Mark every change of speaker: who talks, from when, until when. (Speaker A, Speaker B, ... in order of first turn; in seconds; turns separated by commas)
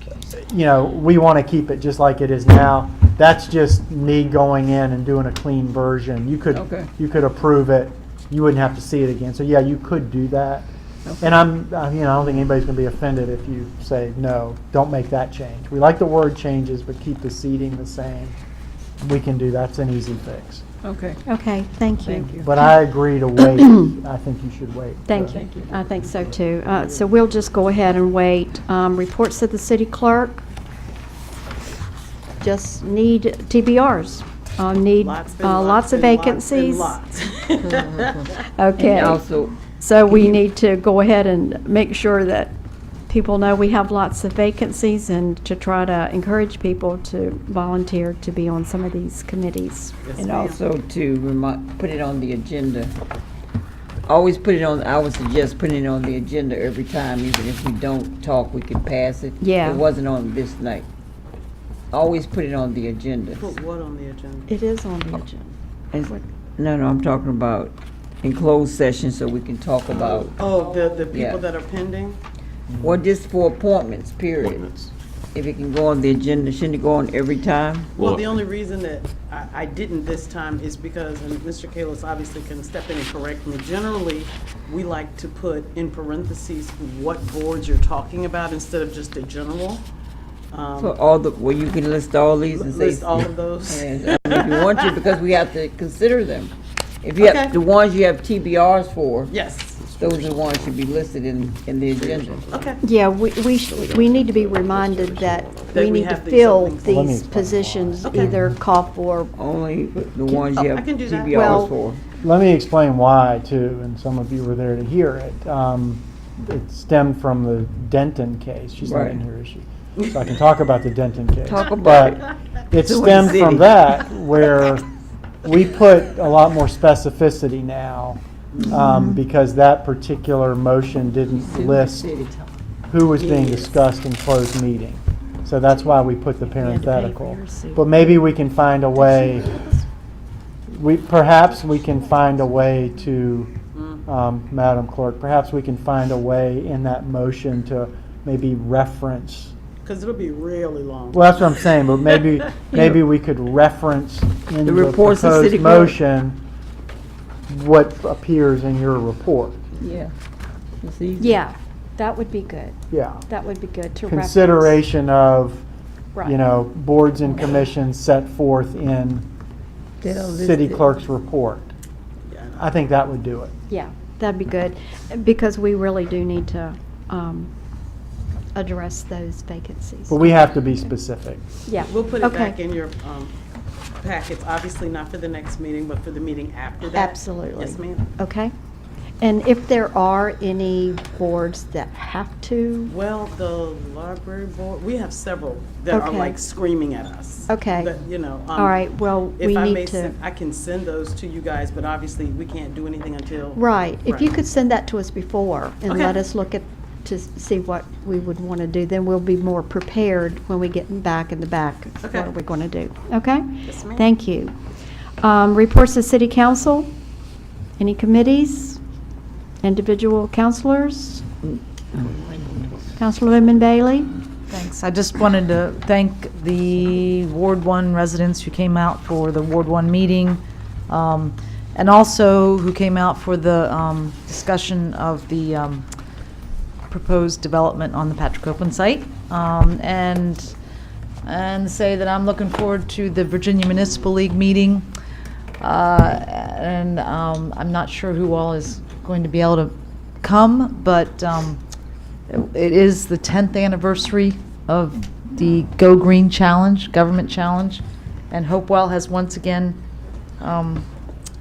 Speaker A: 0.3-10.7, Speaker B: 6.5-6.9, Speaker B: 11.0-11.4, Speaker A: 11.2-18.4, Speaker A: 19.0-20.6, Speaker B: 20.8-21.2, Speaker C: 21.2-22.4, Speaker B: 22.0-22.5, Speaker A: 22.3-25.4, Speaker C: 25.1-30.4, Speaker B: 25.3-25.7, Speaker C: 32.4-37.0, Speaker D: 35.0-38.4, Speaker C: 38.5-42.5, Speaker B: 38.8-39.5, Speaker B: 40.1-40.4, Speaker C: 43.1-50.5, Speaker D: 50.0-50.6, Speaker B: 50.4-52.9, Speaker B: 54.1-60.9, Speaker C: 59.4-59.8, Speaker B: 61.9-63.5, Speaker D: 63.4-64.5, Speaker C: 64.5-65.5, Speaker B: 65.9-71.4, Speaker D: 70.0-72.2, Speaker B: 72.8-74.7, Speaker B: 75.3-78.1, Speaker D: 78.0-89.8, Speaker D: 90.5-91.0, Speaker B: 90.7-99.3, Speaker D: 92.5-95.1, Speaker D: 97.2-97.5, Speaker D: 99.3-99.9, Speaker B: 99.9-102.6, Speaker D: 102.5-102.8, Speaker C: 102.8-109.3, Speaker D: 105.7-107.0, Speaker A: 106.8-108.1, Speaker D: 108.0-108.3, Speaker B: 109.3-112.0, Speaker D: 110.5-111.7, Speaker C: 111.3-111.7, Speaker A: 112.2-124.8, Speaker B: 118.8-119.2, Speaker B: 121.5-124.0, Speaker A: 125.4-132.1, Speaker C: 128.7-129.2, Speaker B: 131.4-132.5, Speaker A: 132.9-139.5, Speaker D: 133.2-133.8, Speaker C: 136.5-138.2, Speaker C: 138.9-139.8, Speaker A: 140.7-143.5, Speaker D: 143.7-144.0, Speaker A: 144.1-149.5, Speaker D: 149.8-151.5, Speaker A: 151.1-156.4, Speaker B: 152.7-153.0, Speaker B: 154.6-156.0, Speaker A: 157.5-159.6, Speaker B: 159.8-160.1, Speaker B: 160.8-161.4, Speaker C: 161.2-164.8, Speaker A: 162.9-163.2, Speaker A: 164.1-165.6, Speaker A: 166.2-169.3, Speaker B: 170.0-170.8, Speaker A: 170.0-171.7, Speaker D: 172.3-172.6, Speaker A: 172.6-173.5, Speaker C: 173.7-177.5, Speaker C: 178.5-180.5, Speaker A: 180.1-181.4, Speaker C: 181.7-182.6, Speaker D: 181.8-183.3, Speaker D: 184.0-188.1, Speaker C: 186.9-188.5, Speaker C: 189.2-192.9, Speaker D: 192.9-204.3, Speaker C: 195.9-196.3, Speaker C: 197.5-197.9, Speaker C: 198.5-200.1, Speaker C: 203.5-214.5, Speaker D: 205.9-206.2, Speaker D: 212.0-212.3, Speaker D: 213.6-214.1, Speaker C: 215.2-216.9, Speaker C: 217.8-218.8, Speaker C: 219.6-221.2, Speaker B: 221.9-222.7, Speaker C: 223.0-224.1, Speaker E: 224.5-235.9, Speaker E: 236.9-240.5, Speaker E: 241.2-244.9, Speaker E: 245.6-251.6, Speaker E: 252.3-259.8, Speaker E: 260.4-260.9